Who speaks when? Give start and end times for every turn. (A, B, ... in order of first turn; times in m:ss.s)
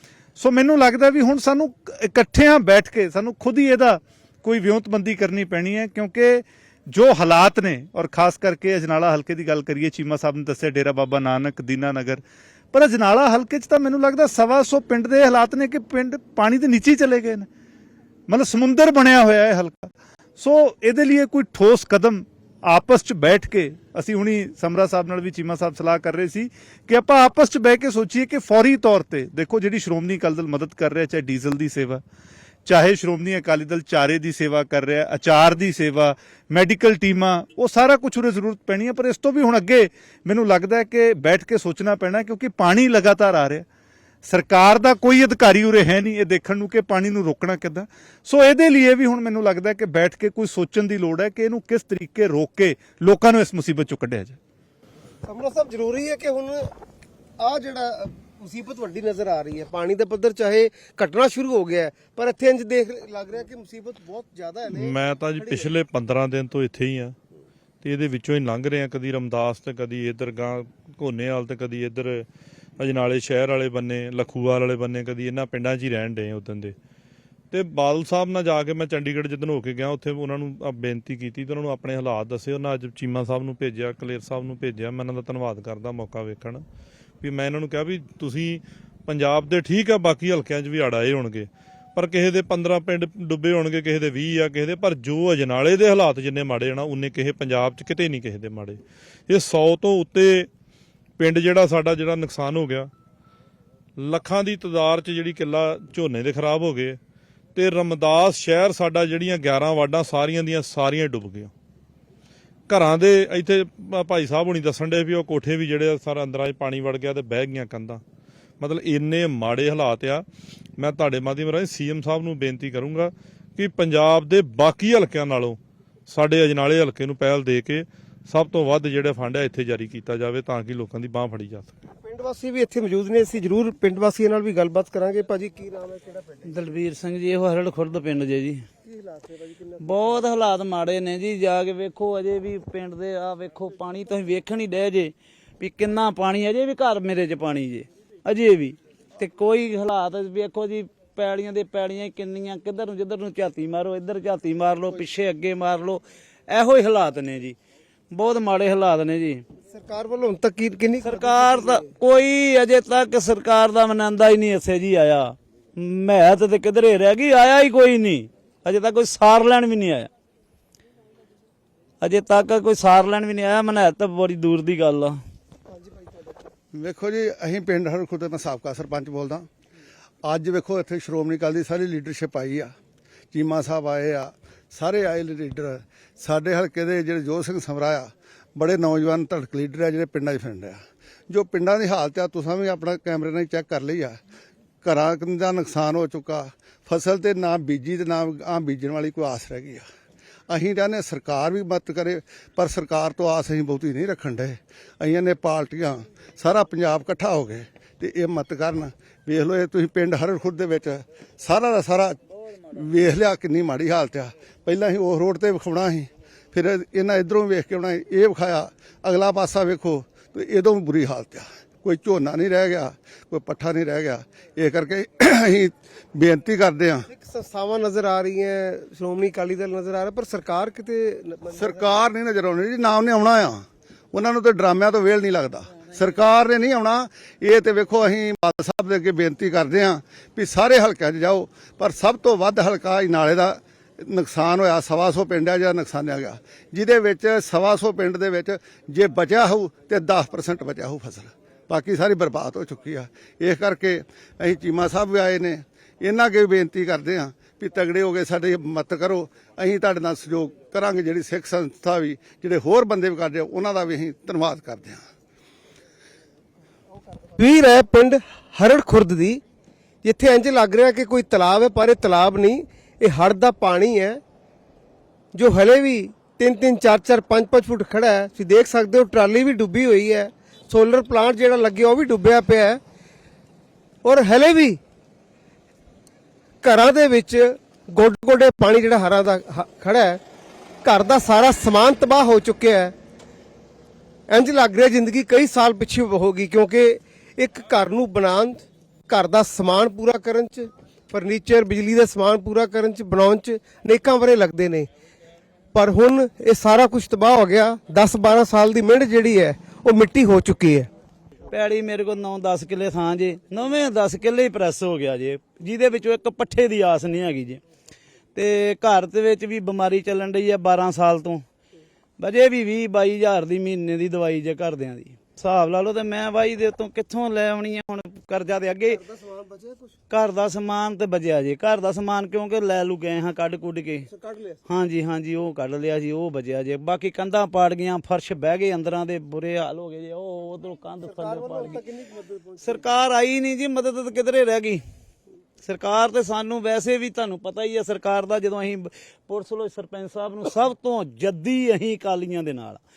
0:00.4-0:17.5 A
0:18.3-0:32.0 A
0:32.6-0:43.7 A
0:44.2-0:54.4 A
0:55.2-0:56.7 B
0:57.4-1:05.7 B
1:04.7-1:07.1 C
1:07.8-1:12.3 C
1:12.8-1:16.7 C
1:17.5-1:26.6 C
1:27.2-1:40.5 C
1:41.2-1:42.9 C
1:44.0-1:47.0 C
1:47.5-1:51.5 C
1:52.7-1:58.0 C
1:58.6-2:00.2 C
2:00.8-2:11.7 C
2:12.0-2:16.5 B
2:16.4-2:18.6 D
2:18.8-2:20.2 B
2:19.8-2:37.6 D
2:38.1-2:39.4 D
2:39.7-2:41.9 B
2:41.0-2:50.1 D
2:52.0-2:55.2 D
2:55.7-2:56.4 B
2:56.7-2:59.5 E
3:00.2-3:02.7 E
3:03.3-3:14.2 E
3:14.8-3:19.8 E
3:20.5-3:47.0 E
3:47.1-3:51.9 B
3:51.6-4:25.0 E
4:27.3-4:29.4 B
4:30.0-4:34.2 B
4:35.3-4:42.8 B
4:44.0-4:44.8 B
4:46.6-4:50.2 B
4:50.8-4:52.9 B
4:54.3-5:04.9 B
5:05.7-5:10.9 B
5:11.5-5:17.6 D
5:18.3-5:21.4 D
5:22.2-5:29.0 D
5:28.9-5:30.0 B
5:30.1-5:34.1 D
5:34.1-5:34.6 B
5:34.7-5:41.8 D
5:41.0-5:42.9 B
5:42.6-5:44.8 D
5:45.6-5:52.8 D